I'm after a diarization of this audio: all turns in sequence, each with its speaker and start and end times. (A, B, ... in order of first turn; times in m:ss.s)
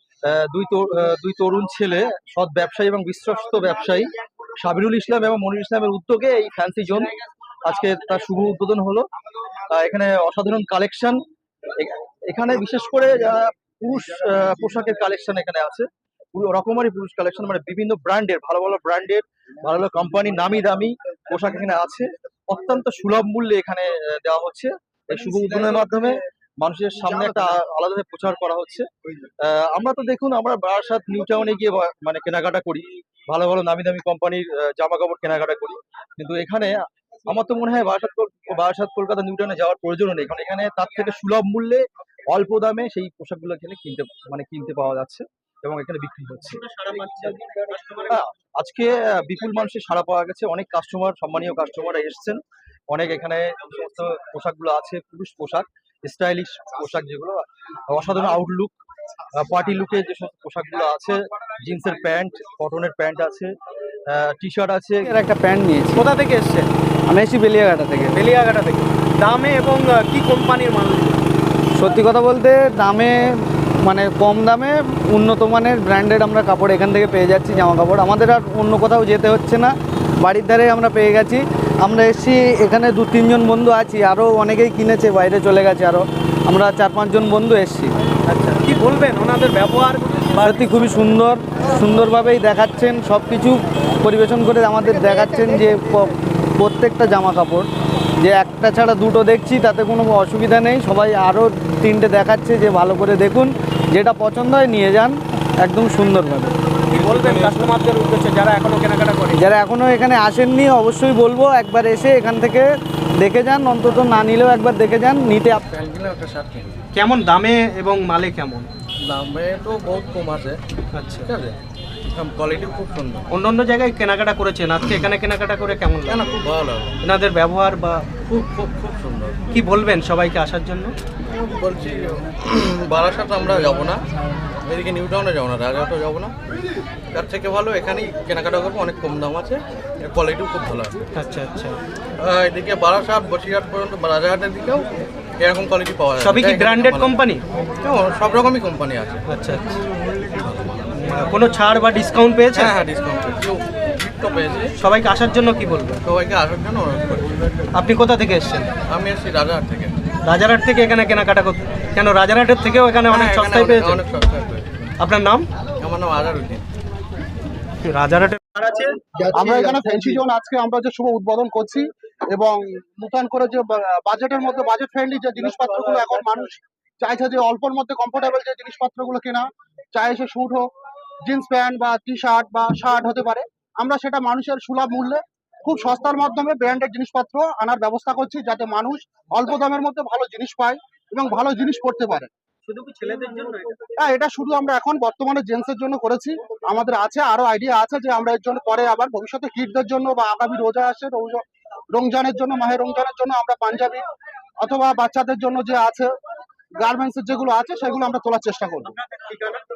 0:00.2-0:07.1 A
0:07.7-0:09.0 A
0:09.7-0:11.2 A
0:11.8-0:28.9 A
0:29.4-0:46.6 A
0:46.6-0:48.2 B
0:48.1-0:58.7 A
0:59.3-1:03.5 A
1:04.1-1:05.1 A
1:05.0-1:06.0 C
1:06.0-1:06.7 B
1:07.1-1:08.2 C
1:08.1-1:11.2 B
1:11.8-1:27.9 C
1:28.3-1:30.7 B
1:30.4-1:37.7 C
1:38.2-1:46.6 C
1:46.9-1:49.4 B
1:49.4-1:52.7 C
1:53.2-1:55.7 C
1:55.7-1:56.8 D
1:56.9-1:58.7 B
1:59.1-2:00.6 D
2:00.9-2:01.3 B
2:01.2-2:01.6 D
2:02.2-2:03.2 D
2:03.3-2:06.3 B
2:06.1-2:07.0 D
2:07.0-2:08.1 B
2:08.2-2:09.4 D
2:09.5-2:10.9 B
2:11.3-2:14.0 D
2:14.7-2:16.3 D
2:17.1-2:21.0 D
2:21.2-2:21.8 B
2:22.2-2:24.8 D
2:25.4-2:27.2 D
2:26.2-2:27.4 B
2:27.8-2:29.2 D
2:29.3-2:29.7 B
2:31.0-2:32.8 B
2:32.5-2:34.7 D
2:34.8-2:36.0 B
2:36.0-2:37.3 D
2:37.7-2:38.7 B
2:38.9-2:39.9 D
2:40.3-2:44.0 B
2:43.1-2:44.8 D
2:45.0-2:45.5 B
2:45.8-2:46.6 D
2:47.8-2:49.0 B
2:49.3-3:00.6 E
3:01.3-3:12.3 E
3:12.7-3:13.9 B
3:14.0-3:24.0 E
3:24.6-3:26.1 E
3:26.8-3:28.9 E
3:29.1-3:29.6 B